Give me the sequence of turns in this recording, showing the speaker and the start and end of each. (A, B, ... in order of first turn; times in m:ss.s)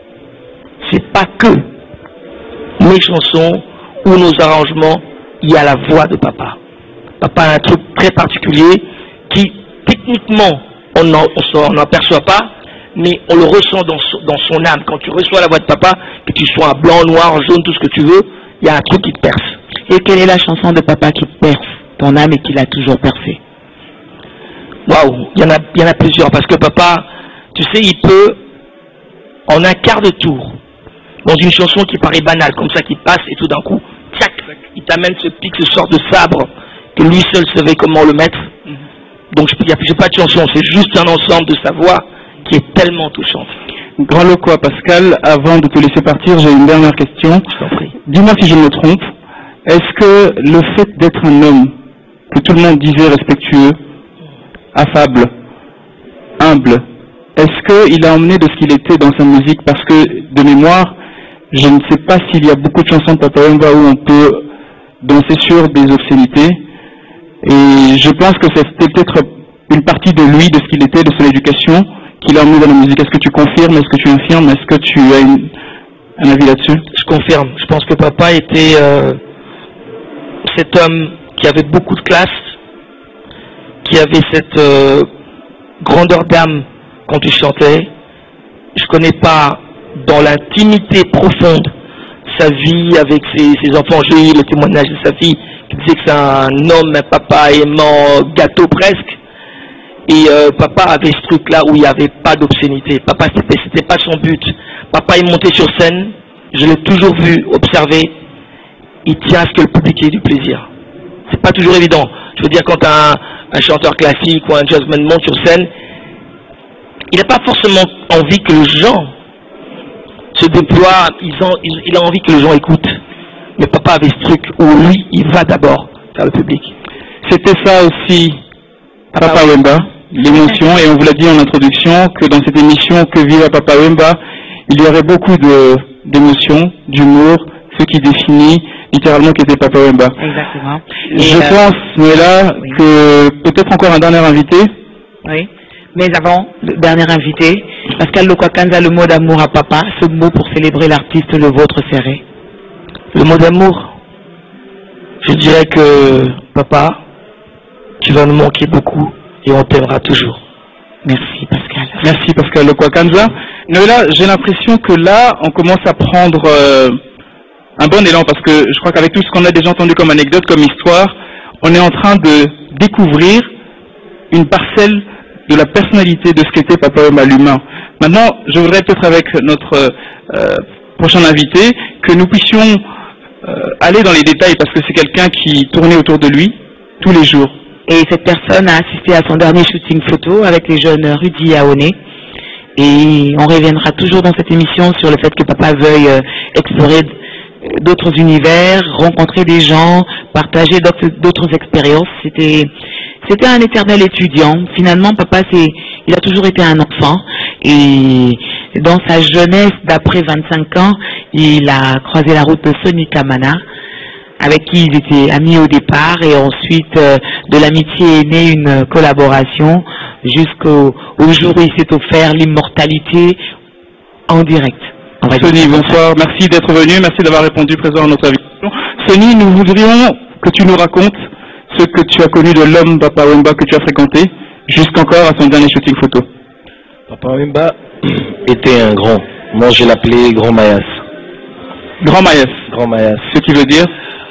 0:00.8-0:01.7 A
0:02.8-0:06.6 A
0:07.2-0:19.6 A
0:19.9-0:23.4 B
0:24.9-0:28.4 A
0:29.5-0:30.6 A
0:31.2-0:38.5 A
0:39.3-0:43.5 A
0:44.0-0:47.5 C
0:47.5-0:47.9 A
0:48.0-0:49.1 C
0:49.6-0:51.7 C
0:52.3-0:53.8 C
0:54.7-0:55.3 C
0:56.4-0:56.8 C
0:57.4-1:01.0 C
1:01.5-1:04.5 C
1:05.0-1:06.6 C
1:07.4-1:15.5 C
1:16.2-1:16.8 C
1:16.9-1:19.2 A
1:20.5-1:22.4 A
1:23.8-1:25.1 A
1:25.8-1:27.9 A
1:28.8-1:31.7 A
1:32.3-1:39.2 A
1:40.1-1:48.1 A
1:49.0-1:50.6 A
1:51.3-1:55.7 A
1:57.1-1:59.1 A
2:00.3-2:03.0 A
2:03.6-2:06.7 A
2:07.2-2:08.4 C
2:09.1-2:20.2 C
2:20.2-2:21.6 B
2:21.1-2:24.7 C
2:25.2-2:32.2 B
2:33.1-2:33.9 A
2:35.2-2:37.0 A
2:38.0-2:40.4 A
2:41.0-2:42.0 B
2:42.0-2:47.0 C
2:47.8-2:53.5 C
2:54.3-3:02.8 C
3:03.4-3:07.6 C
3:07.9-3:12.0 B
3:12.8-3:22.7 B
3:23.2-3:33.6 B
3:34.4-3:43.4 B
3:44.3-3:46.0 B
3:45.3-3:51.2 C
3:51.7-3:56.3 C
3:57.1-4:01.0 D
4:02.0-4:02.6 C
4:02.7-4:03.2 D
4:03.2-4:03.9 C